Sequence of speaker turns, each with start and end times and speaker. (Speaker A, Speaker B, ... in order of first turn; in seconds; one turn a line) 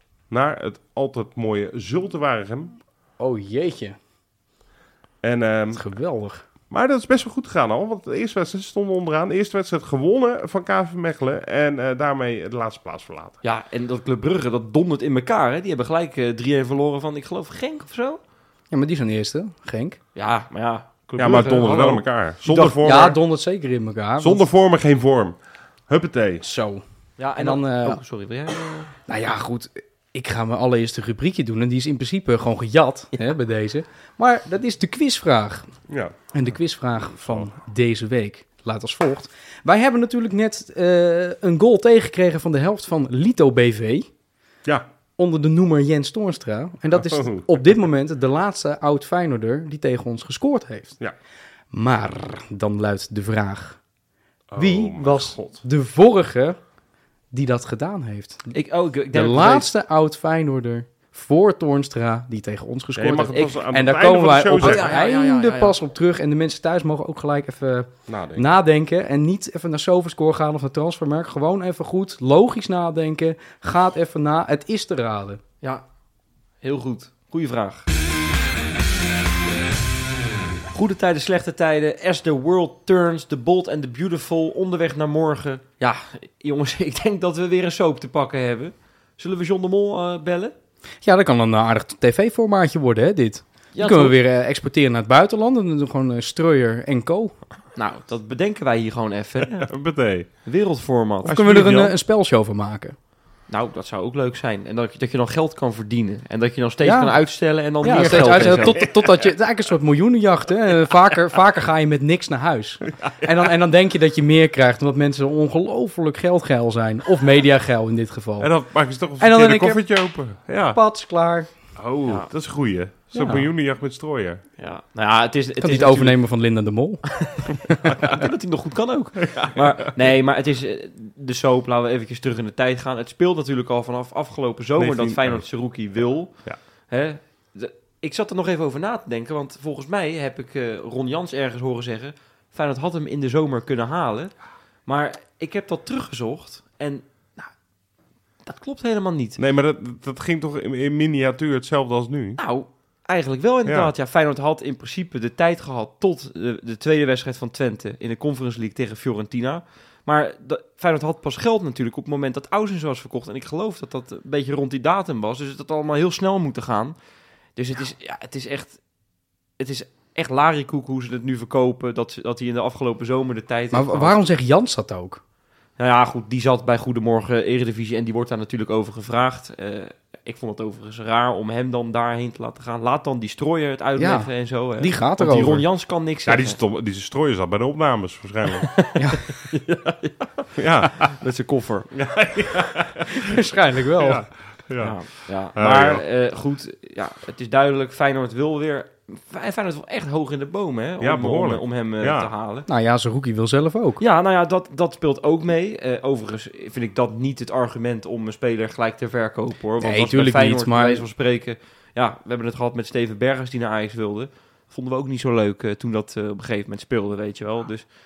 Speaker A: 0.3-2.8
Speaker B: 3.2-4.0
Speaker A: 5.2-5.9
Speaker B: 5.7-6.4
Speaker A: 6.7-13.4
Speaker C: 13.4-18.2
Speaker B: 18.7-20.0
Speaker C: 20.1-22.9
Speaker A: 21.2-23.2
Speaker B: 22.6-24.5
Speaker A: 24.2-25.4
Speaker A: 25.9-26.4
Speaker B: 26.4-26.8
Speaker C: 27.2-28.9
Speaker B: 27.4-28.0
Speaker B: 29.1-35.7
Speaker A: 35.9-36.2
Speaker B: 36.3-44.1
Speaker B: 45.2-51.0
Speaker A: 47.0-47.5
Speaker B: 51.7-53.8
Speaker A: 54.5-55.6
Speaker B: 54.6-56.6
Speaker B: 57.3-58.5
Speaker C: 58.5-59.7
Speaker B: 59.1-75.4
Speaker A: 63.0-64.9
Speaker C: 64.6-65.8
Speaker A: 68.1-68.5
Speaker C: 76.6-77.9
Speaker C: 80.7-90.5
Speaker B: 91.0-97.4
Speaker C: 93.7-94.2
Speaker C: 97.8-99.7
Speaker A: 99.6-100.3
Speaker C: 100.4-101.4
Speaker B: 101.2-103.0
Speaker A: 101.3-102.0
Speaker C: 103.5-108.8
Speaker B: 106.8-107.2
Speaker B: 107.8-118.5
Speaker A: 108.1-109.1
Speaker A: 113.0-113.3
Speaker A: 118.4-120.8
Speaker B: 119.2-119.9
Speaker B: 120.7-121.5
Speaker A: 121.8-124.4
Speaker B: 123.2-123.5
Speaker C: 124.6-126.2
Speaker B: 125.6-128.0
Speaker C: 127.3-136.4
Speaker A: 127.9-128.2
Speaker A: 129.3-129.6
Speaker A: 134.8-135.5
Speaker C: 136.9-144.3
Speaker C: 144.9-147.5
Speaker C: 148.4-149.4
Speaker A: 149.4-152.4
Speaker C: 152.4-166.9
Speaker A: 153.7-153.9
Speaker C: 167.6-168.8
Speaker C: 169.6-174.2
Speaker B: 173.7-175.2
Speaker C: 175.8-186.6
Speaker B: 184.0-185.6
Speaker A: 186.3-188.8
Speaker C: 188.7-190.3
Speaker B: 189.0-189.2
Speaker A: 190.6-191.1
Speaker C: 191.0-191.9
Speaker A: 191.9-193.3
Speaker B: 193.2-194.3
Speaker A: 193.9-196.0
Speaker C: 194.8-202.7
Speaker A: 201.0-202.3
Speaker B: 202.7-204.0
Speaker C: 204.0-217.9
Speaker B: 209.8-211.0